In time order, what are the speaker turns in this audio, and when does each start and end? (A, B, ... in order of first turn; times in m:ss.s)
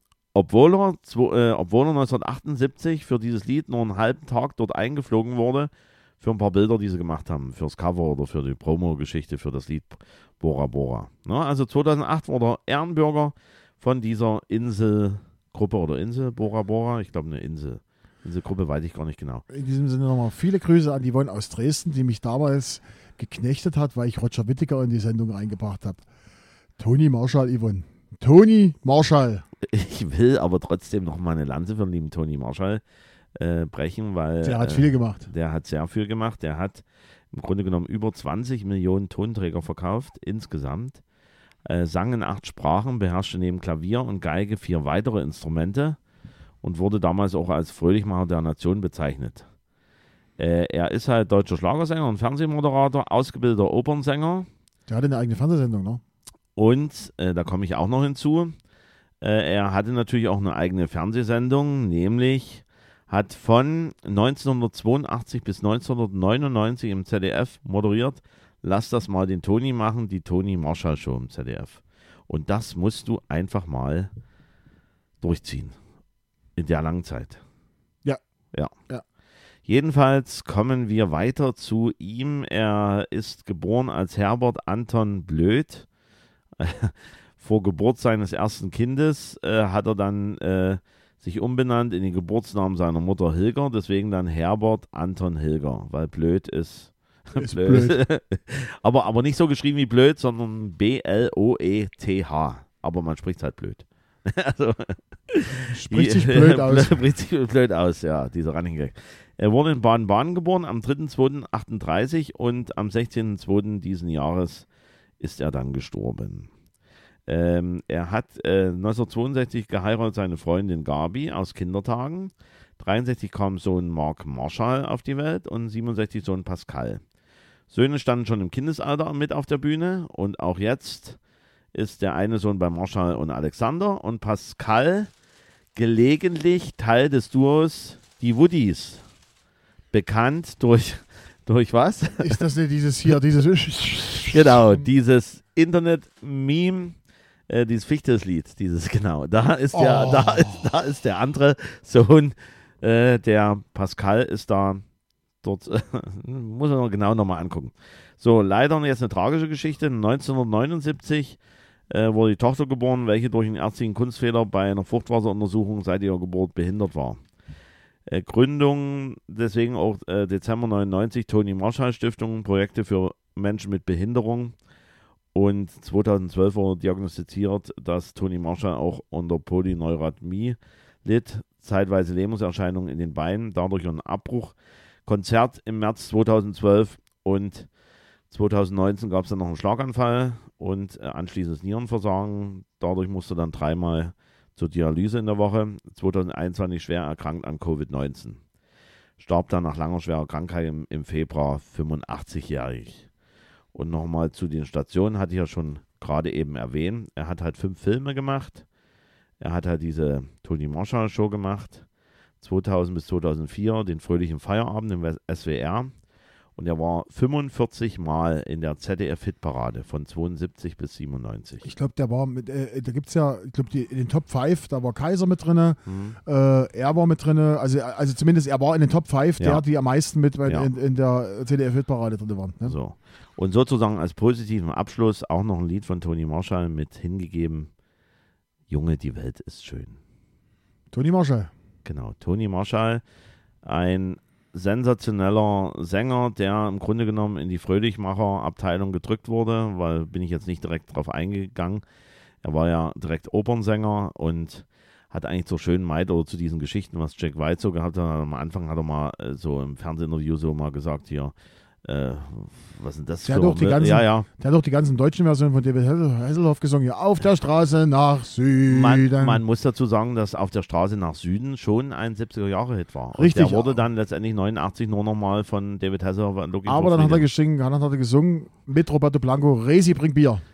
0:00.3-0:19.4 A
0:19.5-0:26.0 B
0:26.8-0:29.4 B
0:29.6-0:32.8 A
0:33.4-0:41.0 A
0:34.4-0:35.3 B
0:41.6-0:46.0 A
0:46.6-0:49.5 A
0:50.4-0:54.5 A
0:54.9-0:56.0 B
0:56.6-0:58.6 A
0:59.2-1:14.1 A
1:15.2-1:15.8 A
1:16.6-1:17.4 A
1:19.7-1:25.9 A
1:26.6-1:54.7 A
1:37.4-1:38.0 B
1:45.5-1:47.0 B
1:55.2-1:56.5 A
1:57.3-2:07.0 A
2:07.7-2:11.2 A
2:11.7-2:15.1 A
2:15.7-2:19.0 A
2:19.9-2:22.4 A
2:22.2-2:24.9 B
2:24.3-2:27.0 A
2:27.5-2:34.8 A
2:29.7-2:30.7 B
2:35.4-2:41.4 A
2:41.9-2:47.2 A
2:48.1-2:54.6 A
2:55.3-3:04.6 A
3:05.1-3:07.7 A
3:08.3-3:18.4 A
3:19.2-3:23.1 A
3:23.7-3:28.7 A
3:29.4-3:31.9 A
3:32.4-3:35.9 A
3:36.6-3:41.7 A
3:41.6-3:52.8 B
3:45.9-3:46.2 A
3:49.4-3:49.6 A
3:52.6-3:57.7 A
3:58.7-4:00.0 A
4:00.9-4:01.5 B
4:01.8-4:03.0 A
4:03.6-4:11.8 A
4:12.4-4:24.3 A
4:23.2-4:29.4 B
4:28.7-4:37.3 A
4:33.2-4:33.9 B
4:36.7-4:40.4 B